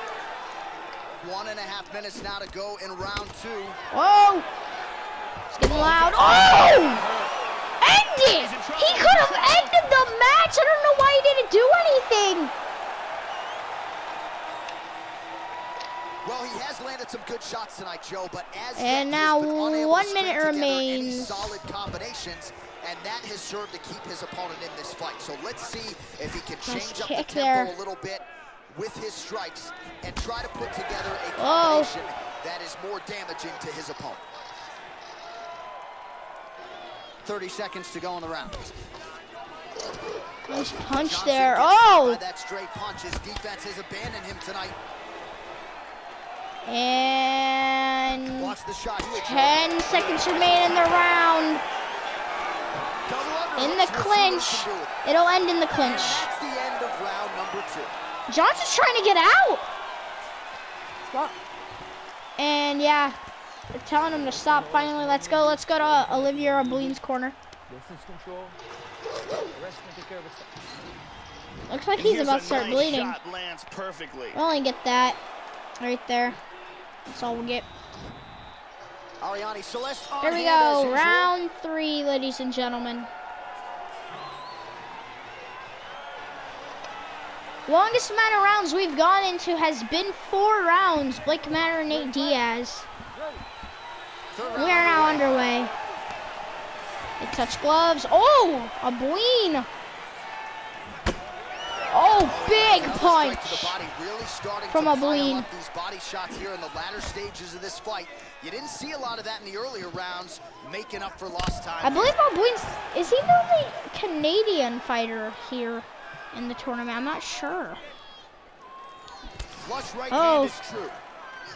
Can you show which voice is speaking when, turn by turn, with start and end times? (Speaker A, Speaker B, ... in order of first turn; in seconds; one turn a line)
Speaker A: 1.2-3.8
Speaker B: 3.9-4.5
Speaker B: 5.5-7.0
Speaker C: 5.6-7.3
Speaker B: 7.8-12.5
Speaker C: 8.3-9.7
Speaker A: 16.2-34.2
Speaker B: 18.8-21.6
Speaker B: 26.6-27.8
Speaker B: 31.4-31.9
Speaker A: 37.2-38.8
Speaker B: 40.5-42.2
Speaker A: 40.5-44.8
Speaker B: 46.7-48.6
Speaker A: 48.4-51.1
Speaker B: 49.1-51.6
Speaker A: 53.1-55.0
Speaker B: 53.6-56.3
Speaker A: 55.8-57.9
Speaker B: 58.3-59.7
Speaker B: 62.4-63.2
Speaker B: 63.7-67.4
Speaker D: 64.1-67.0
Speaker D: 67.7-68.6
Speaker D: 69.5-70.5
Speaker B: 71.7-73.2
Speaker C: 72.0-74.4
Speaker B: 74.3-75.2
Speaker B: 75.8-76.4
Speaker B: 77.1-77.7
Speaker A: 79.2-81.3
Speaker B: 80.2-83.1
Speaker B: 87.7-92.9
Speaker A: 94.3-95.3
Speaker B: 94.6-95.7
Speaker B: 97.2-99.7
Speaker B: 101.9-103.8
Speaker A: 102.2-112.2
Speaker B: 104.7-105.5
Speaker B: 111.8-117.8
Speaker A: 119.6-121.0
Speaker B: 120.1-120.5